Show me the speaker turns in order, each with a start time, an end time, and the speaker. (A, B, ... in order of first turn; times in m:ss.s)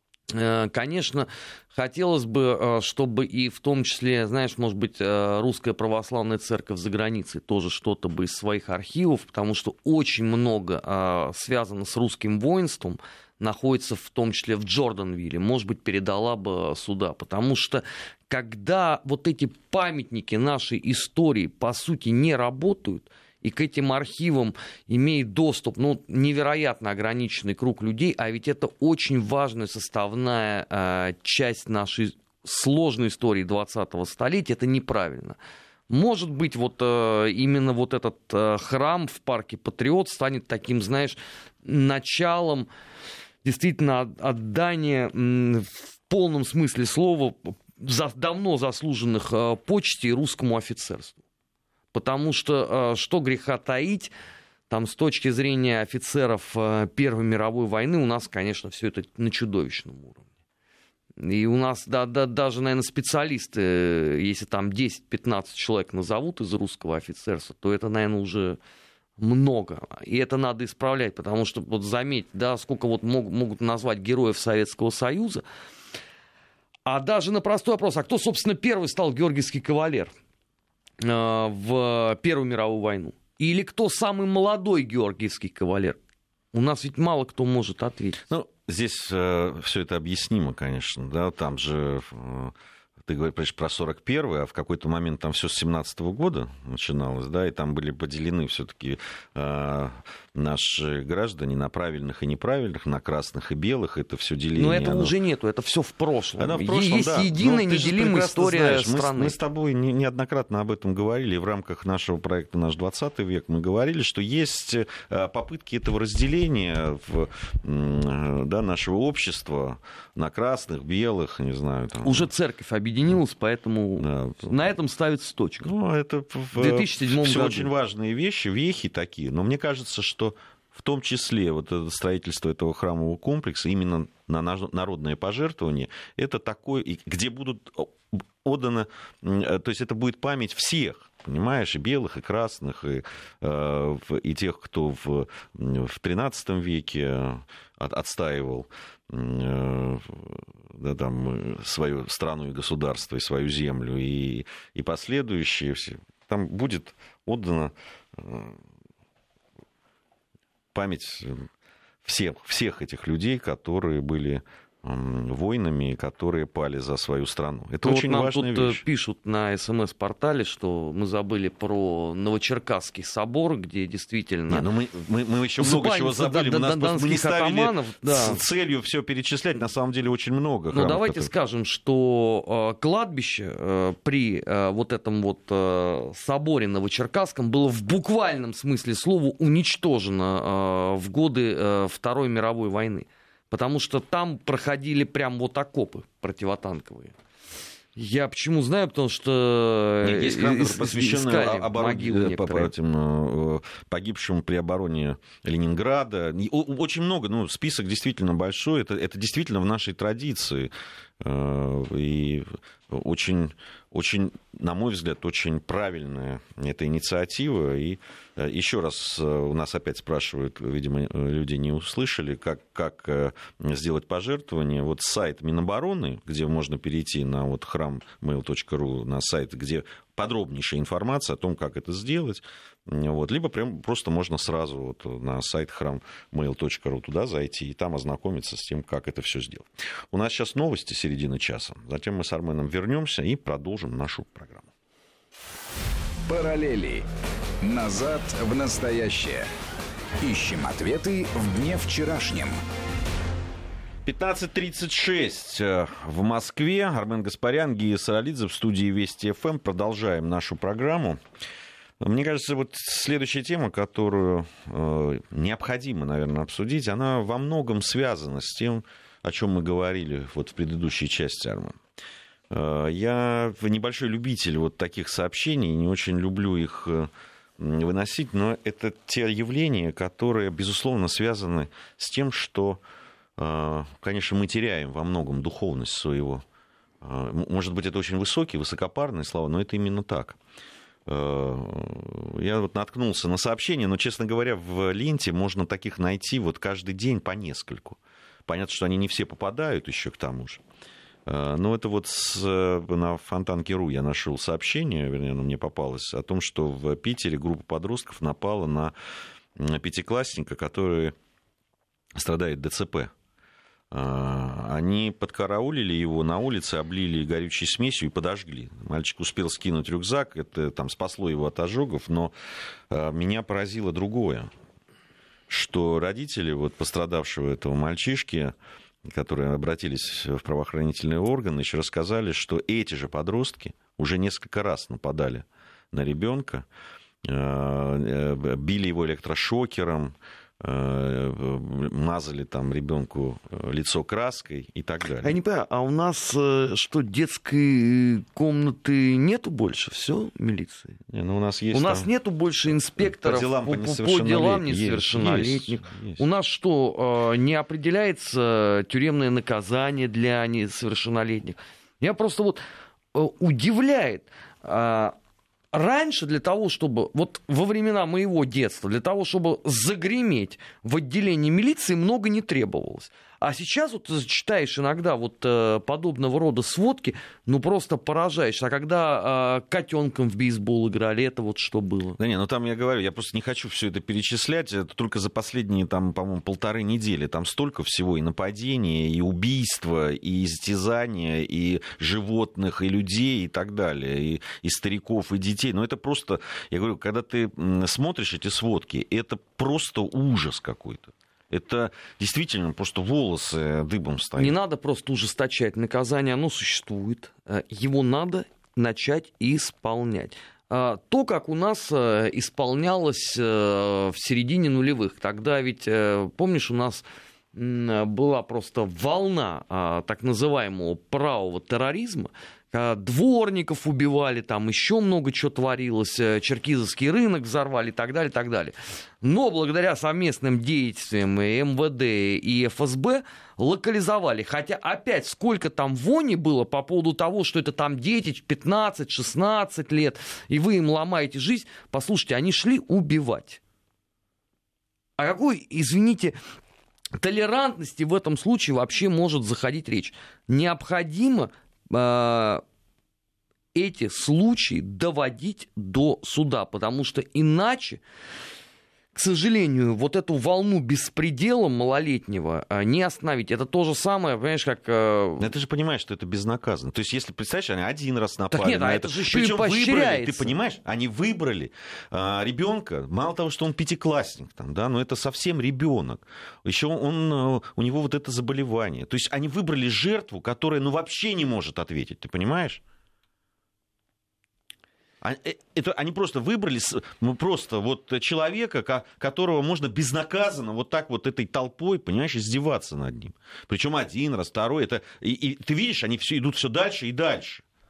0:00.3-0:35.4 A
0:35.9-0:42.7 A
0:43.4-0:51.2 A
0:51.9-0:54.1 A
0:54.7-1:00.2 A
1:01.2-1:08.6 A
1:09.2-1:15.4 A
1:16.8-1:20.1 A
1:21.0-1:26.0 A
1:26.5-1:28.2 A
1:28.3-1:32.5 B
1:33.0-1:45.1 B
1:44.5-1:49.4 A
1:46.4-2:02.3 B
2:02.0-2:05.7 A
2:04.0-2:04.6 B
2:05.6-2:38.6 B
2:06.5-2:07.7 A
2:40.7-2:41.5 B
2:42.0-2:48.8 B
2:47.8-2:54.6 A
2:54.5-3:01.3 B
2:55.6-2:58.4 A
3:00.7-3:17.2 A
3:18.0-3:22.7 A
3:20.0-4:04.7 B
4:06.3-4:07.0 C
4:07.6-4:09.5 C
4:10.2-4:12.6 C
4:14.0-4:21.2 B
4:22.0-4:31.8 B
4:32.5-4:42.8 B
4:43.4-4:46.4 B
4:47.0-4:50.4 B
4:51.1-5:00.6 B
5:01.2-5:08.9 B
5:09.6-5:11.1 B
5:12.2-5:13.1 B
5:13.9-5:22.3 B
5:22.9-5:24.5 B
5:25.5-5:28.5 B
5:29.0-5:36.6 B
5:37.2-5:45.4 B
5:45.2-5:51.0 A
5:51.1-5:52.1 B
5:51.7-6:02.6 A
5:53.0-5:56.2 B
6:03.1-6:05.1 A
6:05.7-6:22.2 A
6:22.2-6:44.6 B
6:44.4-7:23.6 A
7:25.2-7:26.3 A
7:27.2-7:32.6 A
7:33.7-7:38.0 A
7:39.1-7:45.5 A
7:45.4-8:02.8 B
7:48.5-7:50.5 A
8:05.2-8:17.6 B